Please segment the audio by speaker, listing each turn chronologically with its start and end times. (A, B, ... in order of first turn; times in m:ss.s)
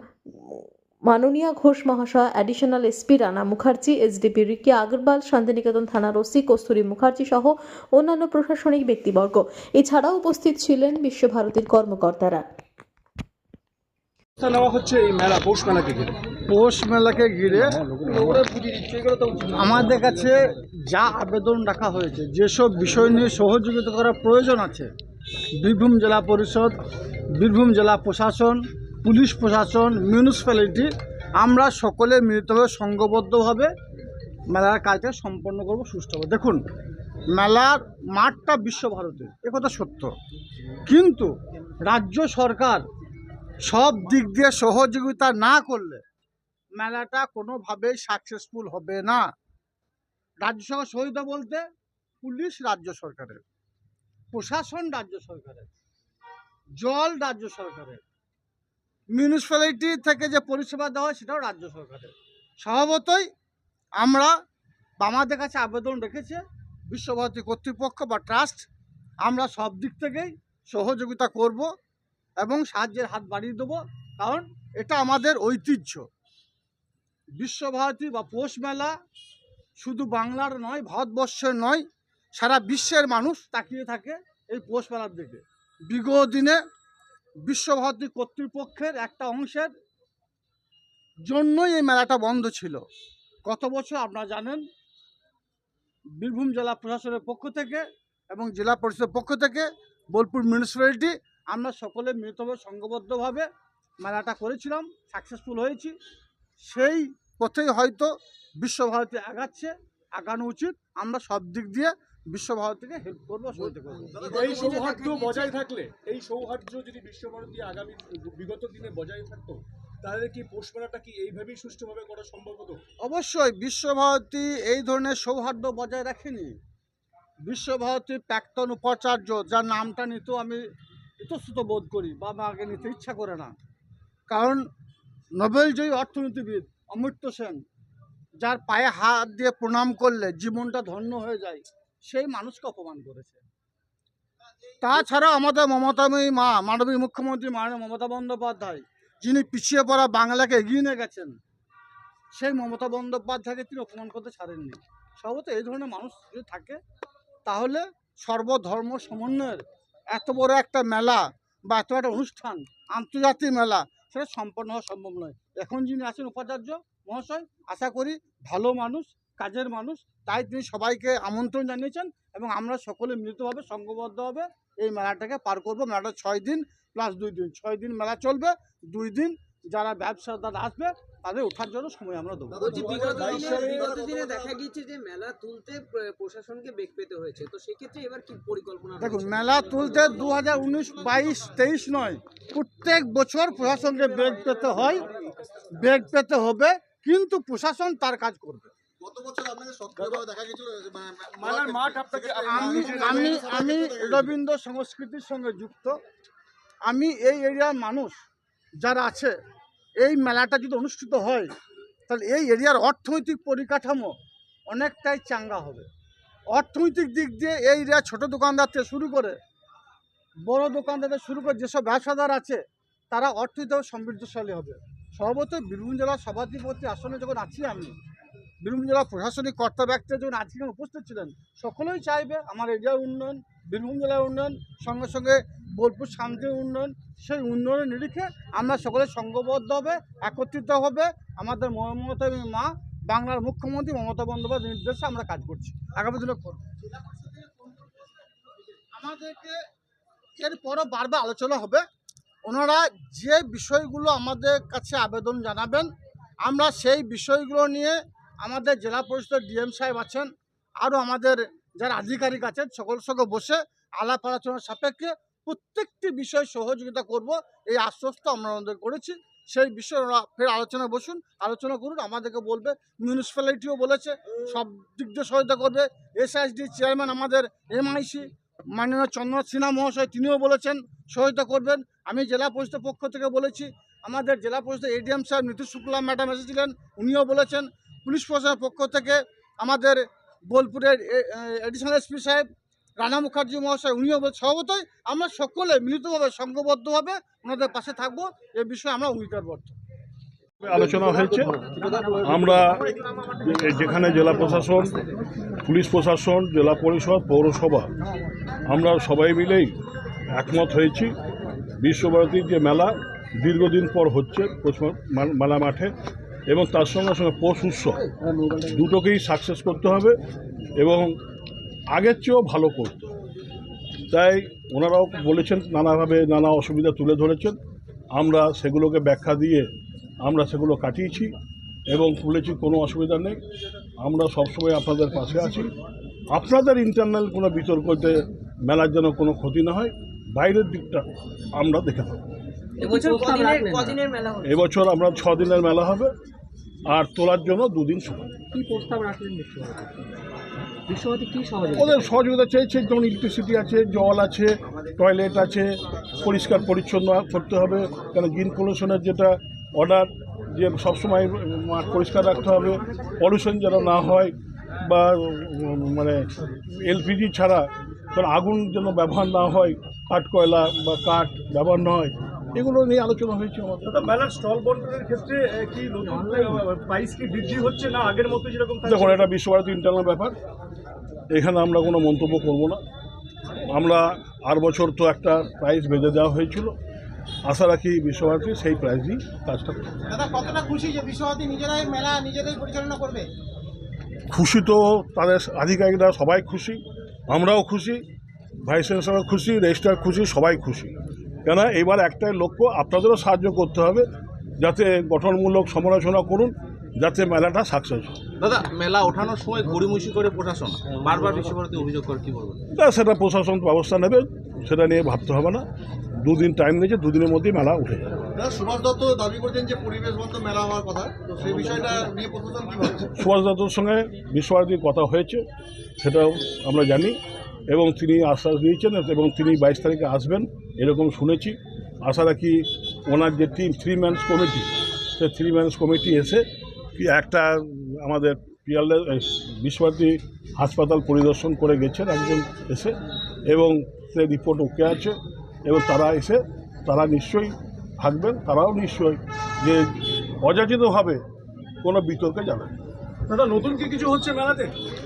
0:00.4-0:12.4 A
0:14.4-0:16.2 B
0:16.5-0:17.8 C
0:17.7-0:19.9 B
0:19.5-0:24.9 C
0:25.6-0:26.8 C
0:27.4-0:33.7 C
0:34.5-0:36.6 C
0:37.4-0:40.1 C
0:40.9-0:41.3 C
0:41.8-0:42.8 C
0:43.6-0:46.0 C
0:46.8-0:49.3 C
0:50.4-0:51.6 C
0:52.2-0:53.4 C
0:54.3-0:55.7 C
0:56.8-0:58.0 C
0:59.1-1:03.3 C
1:04.0-1:04.3 C
1:05.0-1:08.6 C
1:09.2-1:11.7 C
1:12.4-1:16.0 C
1:17.4-1:18.9 C
1:19.8-1:21.8 C
1:22.4-1:26.6 C
1:27.4-1:29.7 C
1:31.3-1:32.8 C
1:33.5-1:34.6 C
1:36.2-1:43.5 C
1:44.0-1:46.0 C
1:46.7-1:54.2 C
1:53.6-1:55.6 D
1:54.2-2:02.8 B
2:03.0-2:06.6 C
2:07.5-2:10.6 C
2:11.2-2:13.6 C
2:14.3-2:14.7 C
2:15.4-2:17.6 C
2:18.4-2:23.4 C
2:24.8-2:31.4 C
2:32.4-2:36.8 C
2:37.5-3:03.6 C
3:02.5-3:04.5 E
3:02.7-3:03.9 B
3:02.7-3:10.4 D
3:09.0-3:15.1 C
3:14.2-3:14.8 D
3:15.2-3:15.6 B
3:15.8-3:18.7 C
3:19.0-3:24.3 E
3:21.4-3:23.4 B
3:22.4-3:26.0 C
3:26.9-3:28.2 C
3:28.8-3:29.4 C
3:30.0-3:31.5 C
3:32.1-3:34.1 C
3:34.7-3:35.9 C
3:36.5-3:39.4 C
3:40.5-3:42.6 C
3:43.1-3:48.0 C
3:48.6-4:07.2 C
4:08.9-4:09.6 C
4:10.4-4:11.8 C
4:12.5-4:15.9 C
4:16.4-4:20.3 C
4:20.8-4:52.5 C
4:53.0-4:59.8 C
5:00.6-5:05.0 F
5:05.6-5:07.9 F
5:08.7-5:09.7 F
5:10.3-5:11.2 F
5:11.8-5:15.9 F
5:16.5-5:18.0 F
5:18.6-5:20.2 F
5:20.8-5:21.1 F
5:21.9-5:23.0 F
5:24.1-5:27.6 F
5:28.2-5:29.7 F
5:30.2-5:31.3 F
5:31.9-5:33.4 F
5:34.0-5:35.7 F
5:36.3-5:41.0 F
5:41.6-5:42.2 F
5:42.8-5:44.6 D
5:42.8-5:44.0 G
5:44.4-5:46.1 F
5:46.9-5:48.3 F
5:48.5-5:50.0 G
5:50.9-5:52.1 G
5:51.7-6:06.2 F
6:06.8-6:14.1 F
6:13.9-6:19.3 B
6:16.2-6:16.6 G
6:18.8-6:20.4 F
6:21.3-6:22.8 F
6:23.7-6:26.8 F
6:27.5-6:29.9 F
6:30.1-6:33.3 E
6:34.3-6:38.0 F
6:38.6-6:40.9 F
6:41.4-6:44.1 F
6:44.6-6:48.2 F
6:52.7-6:55.7 F
6:56.2-6:58.1 F
6:58.4-7:03.1 E
7:03.2-7:05.4 F
7:06.0-7:07.2 F
7:07.7-7:16.4 F
7:17.0-7:23.0 F
7:23.5-7:29.9 F
7:30.4-7:31.2 F
7:31.8-7:32.7 F
7:33.3-7:34.8 B